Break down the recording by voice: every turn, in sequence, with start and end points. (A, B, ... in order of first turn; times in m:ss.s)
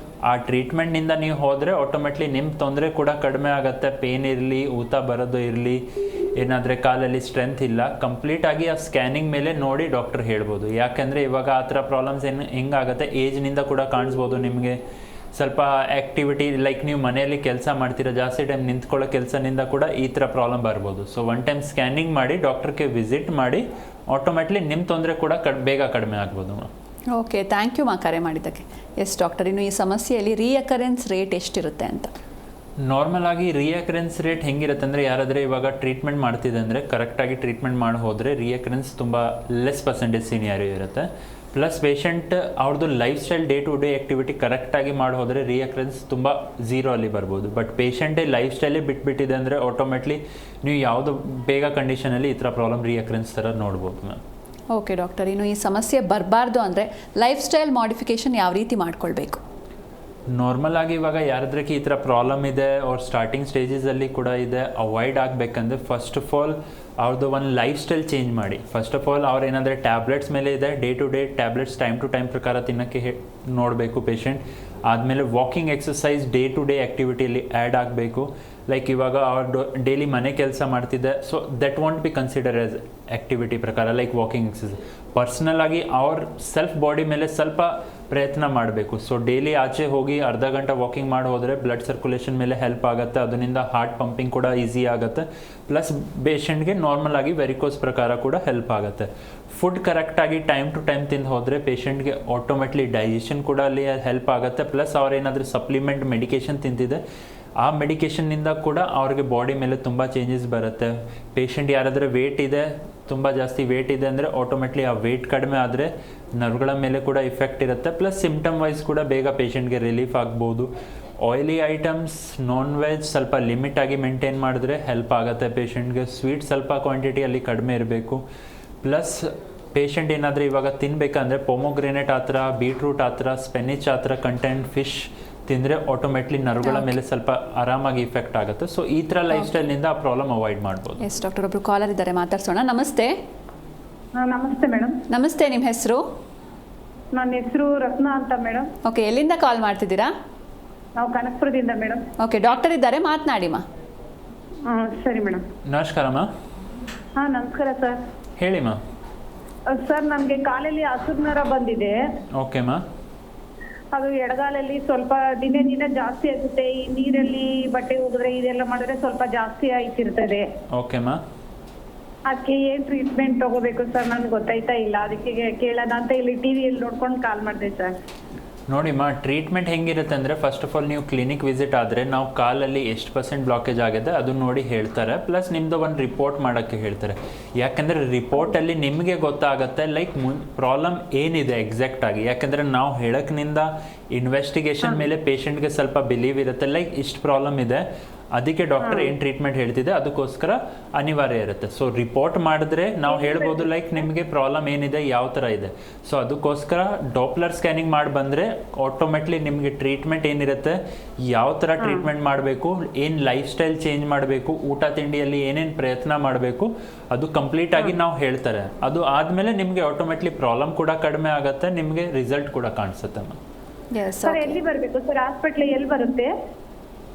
0:00.2-0:14.8 A
0:15.3-0:26.7 A
0:27.1-0:32.1 B
0:32.8-0:54.2 A
0:54.7-0:59.4 B
1:00.3-1:47.0 A
1:47.6-2:08.2 A
2:08.8-2:21.0 A
2:21.0-2:23.2 B
2:24.2-2:25.0 C
2:25.1-2:26.0 B
2:27.1-2:28.7 C
2:28.8-2:30.1 B
2:31.0-2:32.1 C
2:32.2-2:33.6 B
2:34.6-2:35.4 C
2:35.6-2:36.3 A
2:37.2-2:38.0 C
2:38.4-2:38.8 A
2:39.7-2:42.0 C
2:42.3-2:42.8 A
2:43.9-2:50.4 C
2:50.7-2:51.2 A
2:52.3-2:57.9 C
2:58.7-3:43.4 A
3:43.9-3:44.6 B
3:44.2-3:46.3 C